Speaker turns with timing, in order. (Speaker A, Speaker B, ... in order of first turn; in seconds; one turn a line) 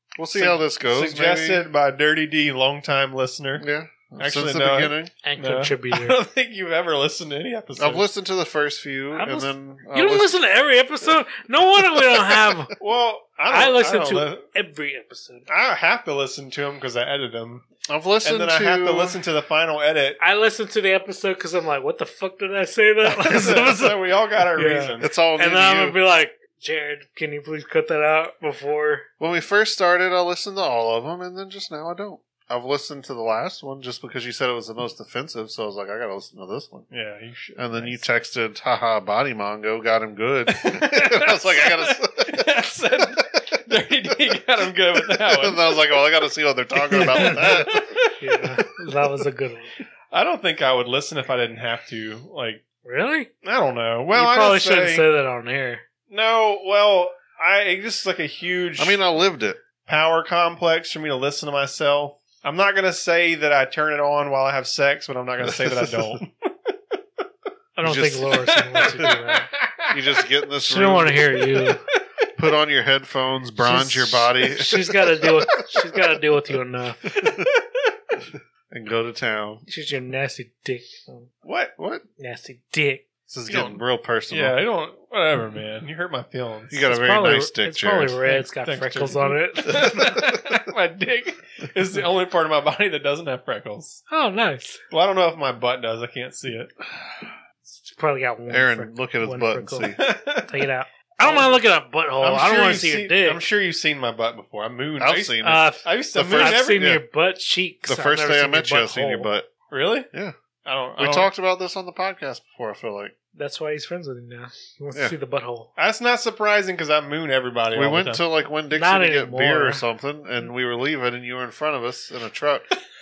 Speaker A: 0.1-1.6
Speaker B: 0.3-3.6
Speaker A: 3.6-5.1
Speaker B: 4.2-8.1
Speaker C: 5.2-6.2
Speaker A: 7.8-10.3
Speaker C: 9.1-12.7
Speaker B: 12.8-14.4
Speaker C: 13.5-15.5
Speaker B: 15.5-17.7
Speaker A: 17.9-19.2
Speaker B: 18.2-20.2
Speaker C: 20.2-29.1
Speaker B: 23.0-25.1
Speaker A: 25.0-26.0
Speaker A: 29.2-36.9
Speaker B: 36.9-38.0
Speaker A: 37.5-42.4
Speaker B: 40.5-45.6
Speaker A: 45.1-47.9
Speaker B: 46.9-48.5
Speaker C: 46.9-47.7
Speaker C: 48.2-49.7
Speaker B: 50.1-52.6
Speaker C: 52.8-53.3
Speaker B: 53.4-55.0
Speaker C: 54.1-55.8
Speaker B: 56.1-59.0
Speaker A: 58.8-59.6
Speaker B: 59.8-66.3
Speaker A: 65.5-66.0
Speaker C: 67.8-69.5
Speaker A: 67.8-68.3
Speaker B: 68.6-70.0
Speaker A: 69.9-71.4
Speaker C: 70.6-71.8
Speaker A: 72.3-75.3
Speaker B: 73.6-74.3
Speaker C: 74.4-77.1
Speaker B: 77.2-77.5
Speaker A: 78.3-79.6
Speaker C: 79.7-81.3
Speaker B: 81.4-81.7
Speaker A: 81.8-82.0
Speaker C: 82.2-83.0
Speaker A: 83.3-84.6
Speaker B: 83.5-86.8
Speaker A: 86.7-88.2
Speaker C: 86.8-90.2
Speaker B: 88.2-94.0
Speaker C: 94.1-94.8
Speaker B: 94.9-96.7
Speaker C: 97.7-103.4
Speaker A: 98.5-100.0
Speaker B: 100.0-100.7
Speaker B: 101.2-101.6
Speaker B: 102.2-106.8
Speaker A: 105.0-107.0
Speaker C: 105.4-109.3
Speaker A: 107.9-109.5
Speaker B: 109.7-110.1
Speaker B: 110.6-111.3
Speaker A: 111.0-113.1
Speaker C: 113.3-115.7
Speaker B: 115.8-118.2
Speaker A: 117.7-122.7
Speaker C: 118.7-119.8